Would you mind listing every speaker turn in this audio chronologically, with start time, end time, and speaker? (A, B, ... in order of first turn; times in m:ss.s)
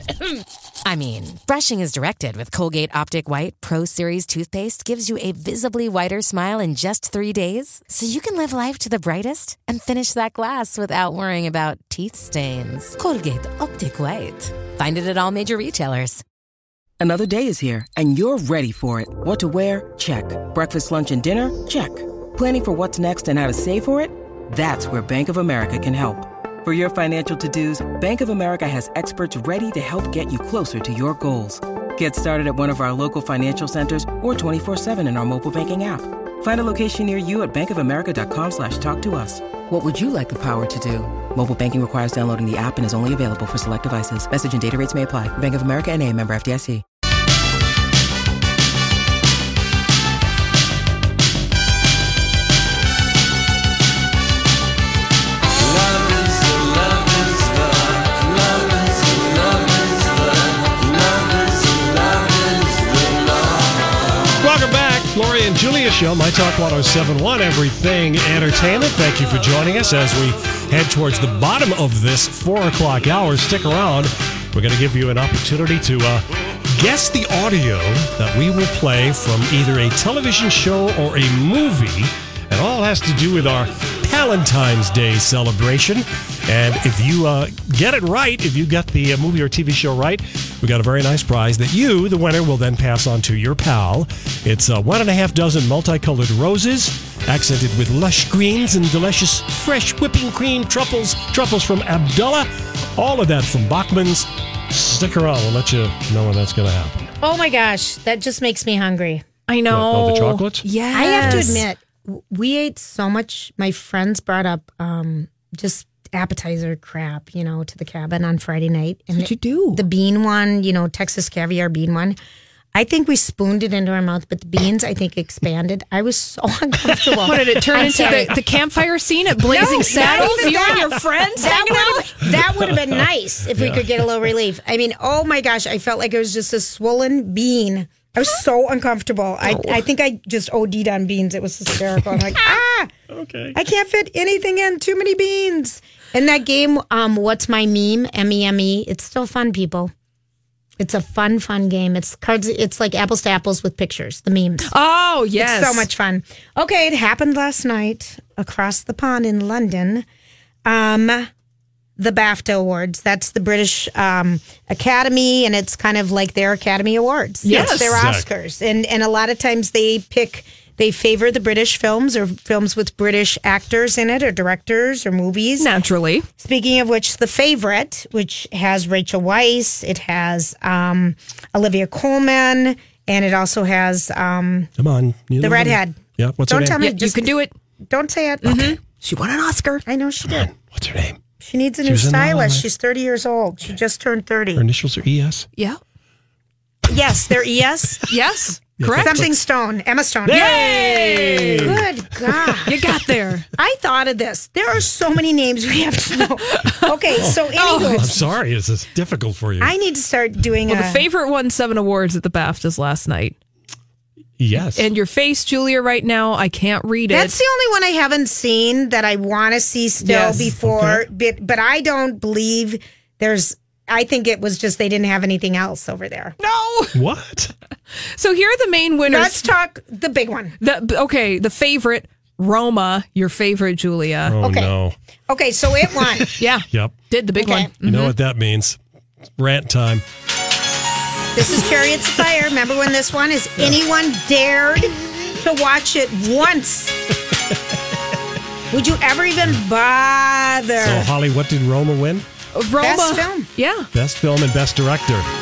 0:00.8-0:16.2 A
0:17.0-0:46.8 B
1:04.4-1:47.1 C
1:47.2-1:49.2 D
1:49.5-1:51.6 E
1:49.7-1:50.6 C
1:50.9-2:02.2 D
1:51.2-1:51.6 C
1:59.2-1:59.8 E
2:02.7-2:08.3 D
2:06.9-2:08.4 C
2:07.2-2:12.3 E
2:09.5-2:22.9 D
2:09.6-2:10.8 C
2:12.4-2:14.3 C
2:19.5-2:19.8 E
2:23.1-2:23.6 C
2:23.5-2:29.9 D
2:30.8-2:34.7 D
2:34.6-2:35.9 E
2:35.4-2:40.0 D
2:40.6-2:41.3 D
2:42.0-2:55.7 D
2:47.4-2:48.0 E
2:47.5-2:48.3 C
2:55.6-2:56.3 E
2:56.4-3:04.7 D
3:04.8-3:06.8 C
3:05.4-3:07.3 D
3:06.8-3:07.5 E
3:07.9-3:08.8 D
3:08.4-3:09.8 E
3:09.8-3:10.5 D
3:10.2-3:11.2 C
3:11.4-3:14.6 D
3:11.8-3:12.7 C
3:14.5-3:15.5 C
3:16.8-3:18.1 D
3:18.1-3:19.2 E
3:18.8-3:19.3 C
3:19.0-3:20.6 D
3:20.2-3:22.6 C
3:20.3-3:21.8 E
3:21.6-3:22.8 D
3:22.6-3:23.5 E
3:23.6-3:28.2 D
3:26.5-3:28.0 E
3:27.2-3:29.7 C
3:29.6-3:31.0 D
3:30.7-3:33.4 E
3:34.4-3:34.9 C
3:34.7-3:37.4 E
3:37.1-3:46.4 D
3:40.0-3:40.4 E
3:40.6-3:41.0 C
3:46.4-3:47.0 E
3:46.9-3:47.5 C
3:48.1-3:49.4 E
3:49.1-3:50.6 D
3:50.6-3:54.4 E
3:54.2-3:54.9 C
3:54.4-3:54.7 D
3:55.3-3:56.3 D
3:56.4-3:58.1 E
3:56.7-3:56.9 C
3:57.4-3:57.7 D
3:57.8-3:58.8 C
3:59.4-4:00.0 C
4:01.3-4:07.0 D
4:08.7-4:11.1 D
4:10.8-4:12.2 C
4:12.5-4:13.9 E
4:12.8-4:13.5 D
4:13.9-4:15.3 C